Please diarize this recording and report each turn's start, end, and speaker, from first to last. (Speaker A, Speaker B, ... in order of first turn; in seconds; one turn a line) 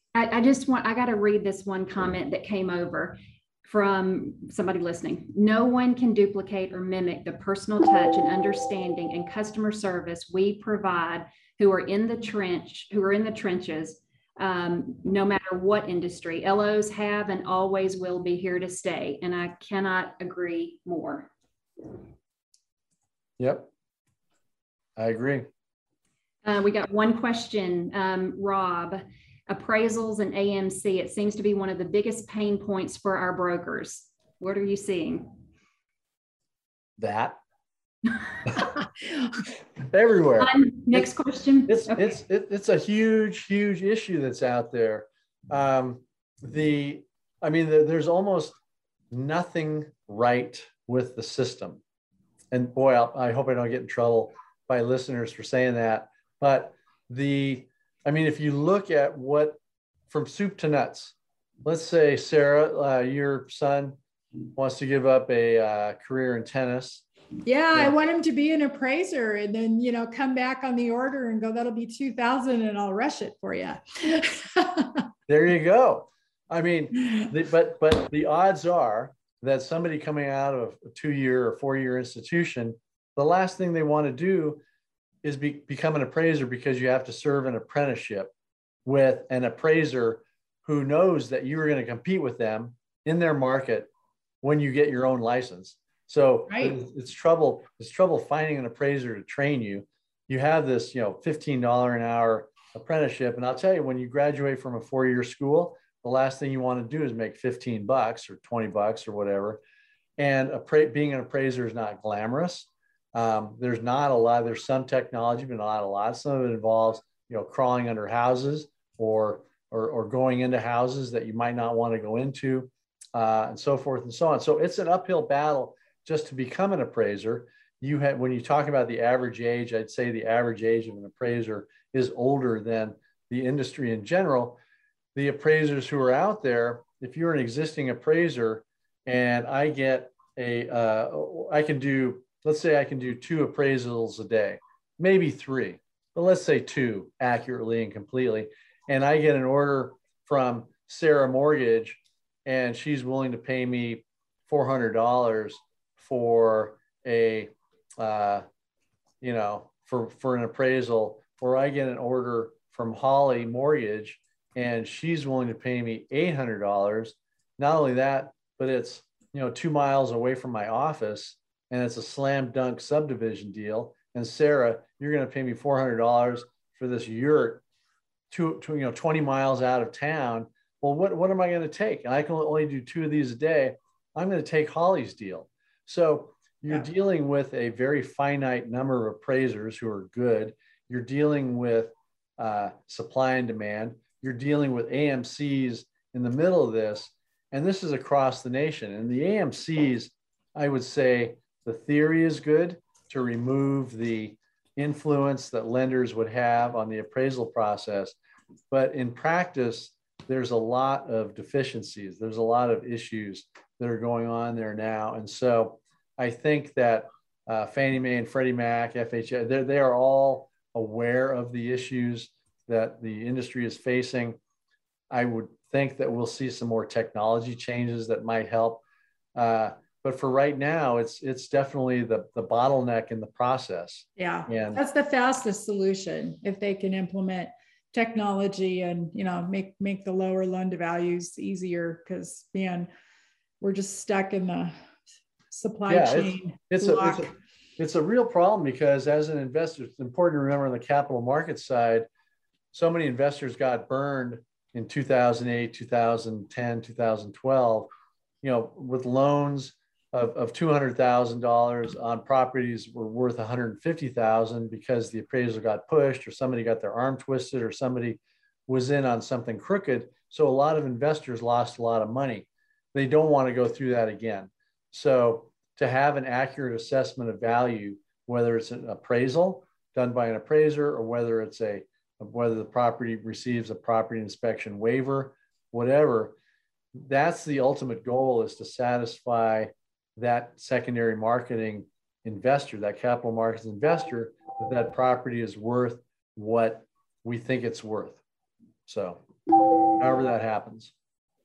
Speaker A: 0.1-21.3
Speaker B: 23.4-23.7
Speaker B: 25.0-25.5
Speaker A: 26.4-35.3
Speaker B: 37.0-37.4
Speaker B: 39.8-41.1
Speaker A: 40.4-42.2
Speaker B: 41.7-48.5
Speaker B: 49.1-51.8
Speaker B: 52.5-64.0
Speaker B: 64.5-67.0
Speaker C: 67.4-75.1
Speaker B: 75.3-84.6
Speaker B: 85.2-88.3
Speaker B: 88.8-93.9
Speaker B: 94.4-109.6
Speaker C: 96.5-96.7
Speaker B: 110.2-134.6
Speaker B: 135.1-158.4
Speaker B: 159.2-177.6
Speaker B: 178.3-208.1
Speaker B: 208.7-224.4
Speaker B: 225.1-228.8
Speaker B: 229.3-234.8
Speaker C: 234.2-242.9
Speaker C: 243.6-244.7
Speaker C: 245.5-247.3
Speaker B: 245.9-252.1
Speaker B: 252.7-257.9
Speaker B: 258.4-286.4
Speaker B: 286.9-298.2
Speaker B: 298.9-299.2
Speaker B: 299.9-300.9